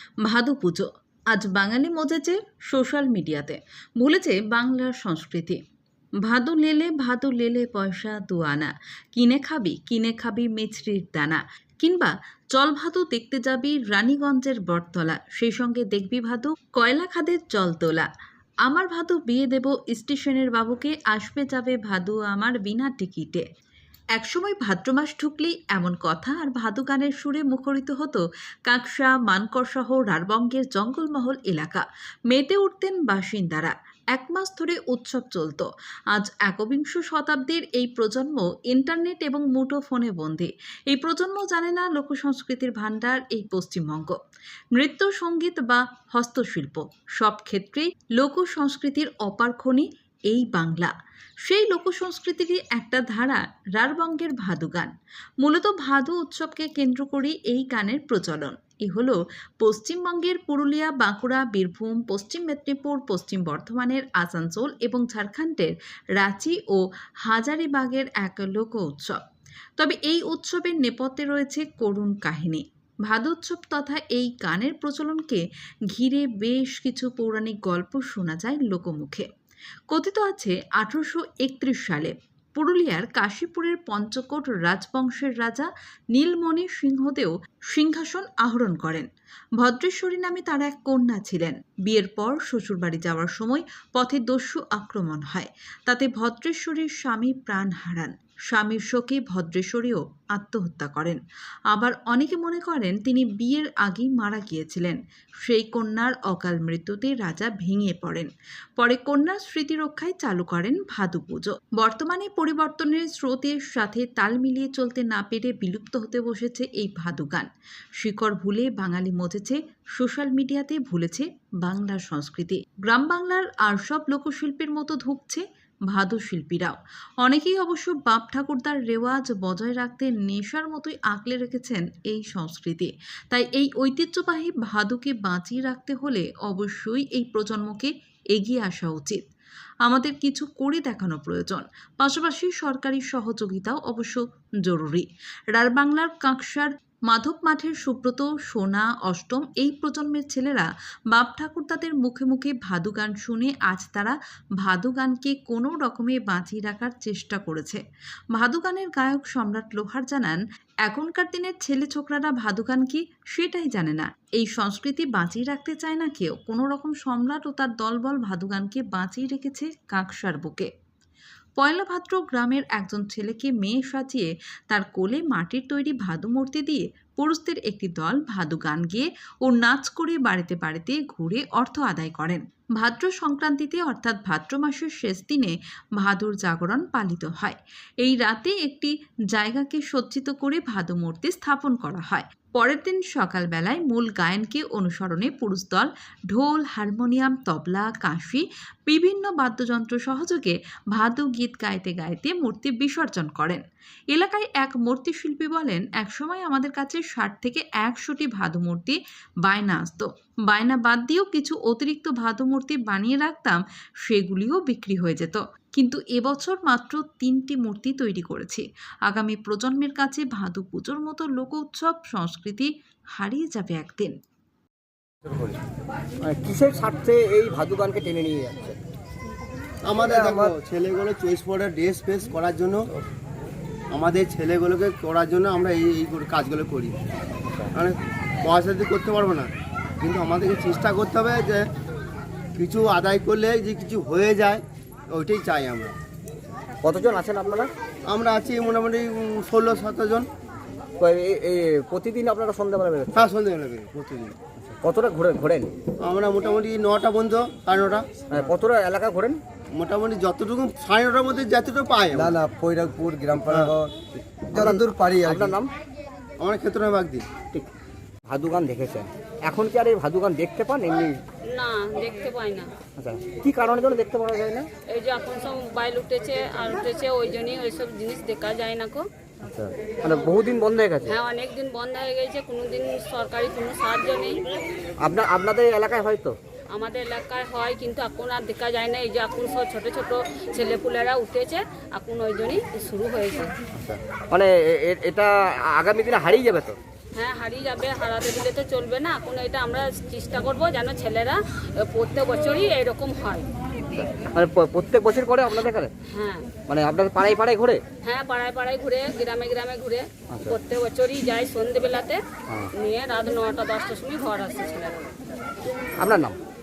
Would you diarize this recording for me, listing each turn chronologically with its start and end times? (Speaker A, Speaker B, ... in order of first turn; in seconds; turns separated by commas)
Speaker A: 0.2-5.6, Speaker A: 6.2-18.1, Speaker A: 18.7-23.4, Speaker A: 24.1-44.2, Speaker A: 44.7-50.9, Speaker A: 51.5-69.2, Speaker A: 69.8-79.3, Speaker A: 79.9-89.1, Speaker A: 89.6-101.2, Speaker A: 101.7-139.2, Speaker A: 139.8-157.8, Speaker A: 158.3-170.7, Speaker A: 171.6-224.1, Speaker B: 226.2-228.8, Speaker C: 229.8-232.9, Speaker B: 230.0-230.5, Speaker C: 233.9-237.0, Speaker C: 237.7-239.5, Speaker C: 240.0-241.7, Speaker C: 242.6-245.9, Speaker B: 246.8-247.7, Speaker C: 248.1-250.3, Speaker B: 251.0-253.2, Speaker C: 253.1-254.3, Speaker B: 254.7-255.7, Speaker C: 256.0-258.1, Speaker B: 258.3-259.4, Speaker C: 259.7-262.4, Speaker D: 262.3-263.9, Speaker B: 263.3-263.7, Speaker C: 263.4-263.7, Speaker B: 264.5-265.7, Speaker D: 264.6-265.5, Speaker C: 266.4-267.2, Speaker B: 268.3-271.1, Speaker E: 271.5-272.7, Speaker B: 273.0-274.7, Speaker E: 274.9-279.1, Speaker B: 279.4-281.2, Speaker E: 281.1-284.4, Speaker B: 285.0-286.4, Speaker E: 286.7-293.6, Speaker B: 293.7-296.8, Speaker E: 297.1-303.5, Speaker B: 303.9-305.9, Speaker E: 306.1-306.5, Speaker B: 306.7-307.8, Speaker E: 308.0-312.2, Speaker E: 312.8-315.1, Speaker B: 316.0-316.4